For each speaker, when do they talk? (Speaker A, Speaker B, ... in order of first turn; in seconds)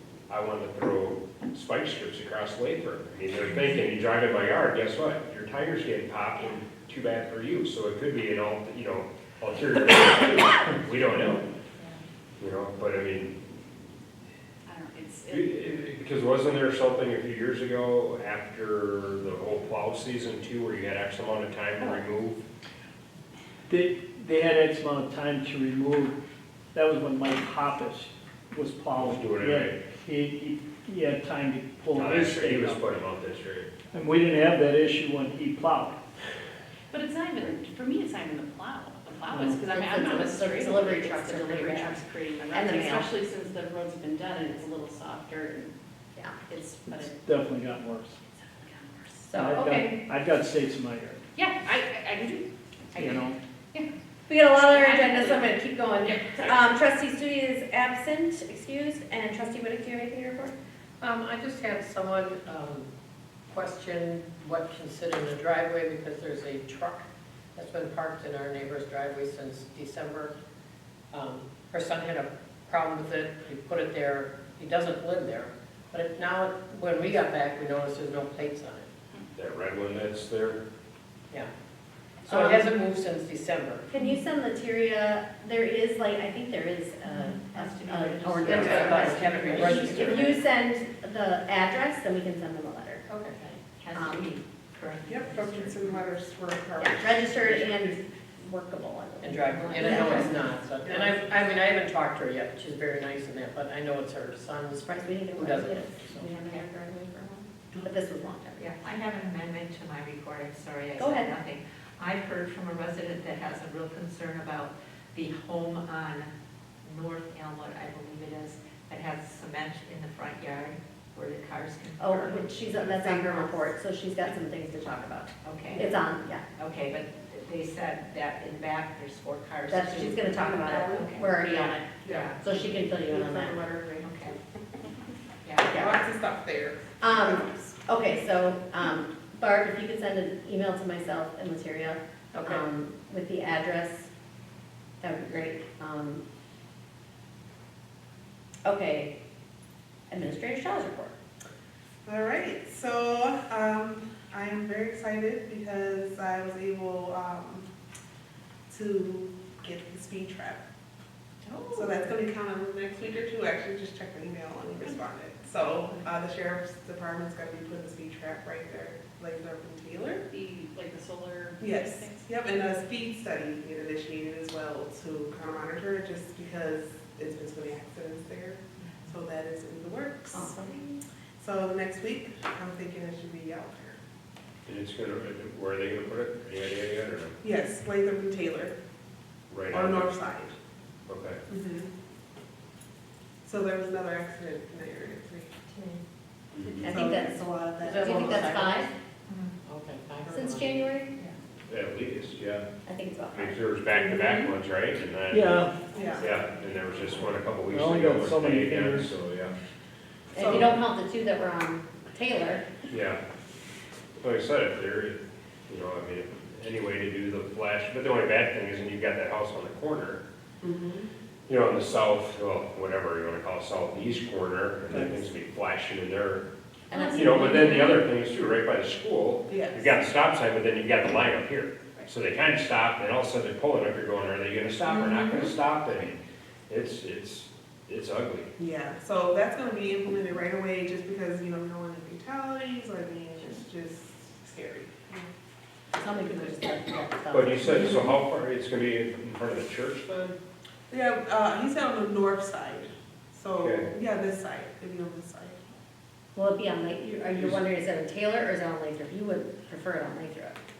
Speaker A: 0.3-11.5, 12.4-13.4, 15.3-22.4, 28.9-29.8, 31.9-33.7, 79.3-80.6, 184.7-187.3, 189.5-190.2, 191.1-191.4, 201.7-202.7, 203.3-205.6, 206.2-209.6, 212.9-213.2, 214.2-220.2, 221.5-226.5, 227.1-238.5, 247.3-250.4, 253.6-253.9
Speaker B: 14.6-15.6, 36.9-45.7, 46.5-47.2, 48.2-49.2, 51.4-53.9, 54.6-56.6, 170.3-172.3
Speaker C: 23.7-26.1, 26.7-32.8, 33.9-36.0, 39.3-39.5, 46.9-48.2, 49.3-51.2, 53.0-53.4, 205.3-205.8, 207.7-209.2
Speaker D: 39.5-43.1, 49.2-50.0, 54.3-60.5, 82.3-82.7, 83.9-93.0, 93.9-94.3, 96.8-100.4, 104.8-108.7, 111.0-111.3, 122.0-126.4, 129.7-131.8, 132.4-133.6, 135.7-136.1, 137.0-144.1, 145.0-146.2, 148.6-149.1, 150.1-151.1, 180.3-181.0, 196.8-198.9, 200.3-201.1, 202.8-203.6, 210.3-212.7, 226.9-228.0, 245.9-248.1, 256.3-260.6
Speaker E: 61.0-62.9, 63.5-67.0, 67.5-70.3, 71.1-78.8, 82.2-83.8, 88.4-90.3, 93.1-93.6, 99.2-104.8, 105.3-106.2, 142.3-142.6, 195.7-196.0, 197.8-198.8, 199.6-200.8
Speaker F: 87.0-90.3, 93.8-96.0, 99.7-100.3, 108.6-116.3, 116.8-123.7, 125.4-125.9, 126.6-132.4, 134.0-134.4, 135.4-135.8, 178.8-179.1, 199.3-199.6
Speaker G: 88.5-88.9, 89.6-90.2, 95.0-97.9, 130.4-131.2, 132.0-134.3, 135.7-137.7, 152.0-157.7, 158.7-160.6, 161.5-170.2, 171.6-180.8, 181.4-184.0, 187.4-188.7, 189.7-190.5, 191.5-191.9, 193.4-195.6, 196.8-198.6, 205.9-206.2, 210.3-210.8, 220.6-221.1, 229.5-229.9, 234.9-235.5, 238.6-245.3, 250.9-255.6